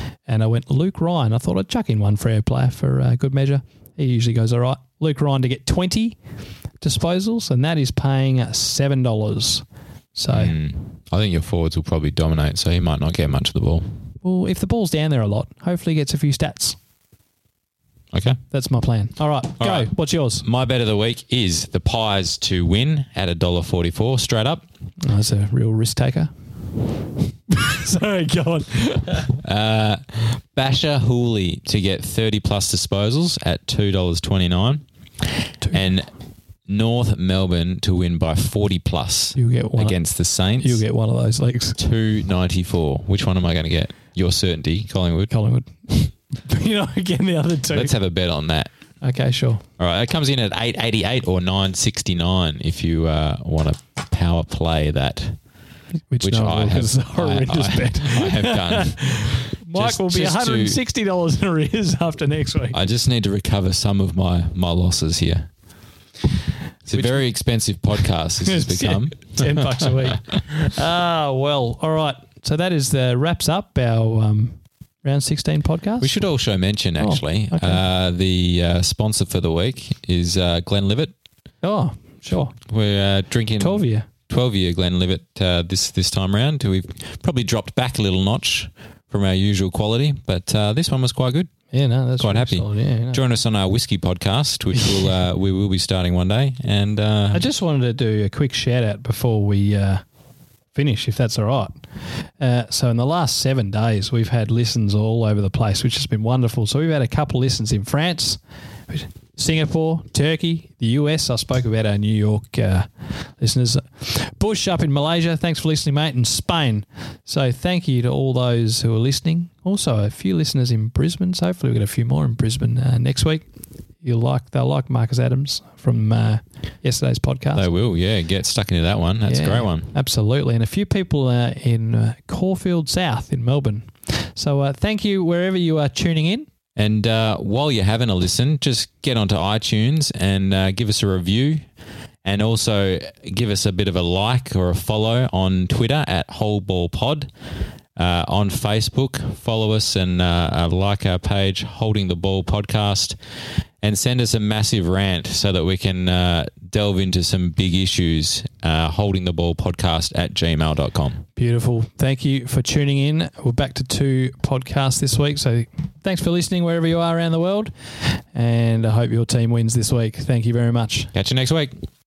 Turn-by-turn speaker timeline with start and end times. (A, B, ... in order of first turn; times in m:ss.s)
0:00.3-0:06.2 A
0:06.8-0:09.6 A
0:10.1-0:10.6 A
0:10.3-0:13.8 B
0:14.2-0:16.8 A
0:18.1-0:18.4 B
0:18.5-0:20.4 A
0:19.6-0:24.6 B
0:25.0-0:26.3 A
0:27.5-0:29.3 A
0:29.3-0:34.8 B
0:35.7-0:36.1 B
0:36.7-0:40.8 B
0:39.4-0:40.0 A
0:40.6-0:41.8 A
0:41.8-0:45.3 B
0:45.3-0:47.9 A
0:47.7-0:48.7 B
0:49.0-0:49.6 A
0:49.8-0:55.4 B
0:56.1-1:02.8 A
0:56.2-1:00.8 B
1:02.7-1:05.5 B
1:06.8-1:10.1 B
1:06.9-1:07.2 A
1:08.4-1:16.1 A
1:16.0-1:21.1 B
1:17.0-1:17.8 A
1:21.6-1:22.5 A
1:22.3-1:31.5 B
1:23.6-1:24.1 A
1:31.7-1:33.2 A
1:32.2-1:37.4 B
1:37.3-1:40.0 A
1:40.7-1:41.8 A
1:42.4-2:03.4 A
2:04.0-2:07.6 A
2:07.5-2:09.9 B
2:09.2-2:16.5 A
2:16.8-2:21.6 B
2:22.2-2:27.3 B
2:28.0-2:33.2 B
2:33.8-2:41.2 B
2:41.4-2:47.7 A
2:48.3-2:51.1 A
2:51.1-2:51.7 B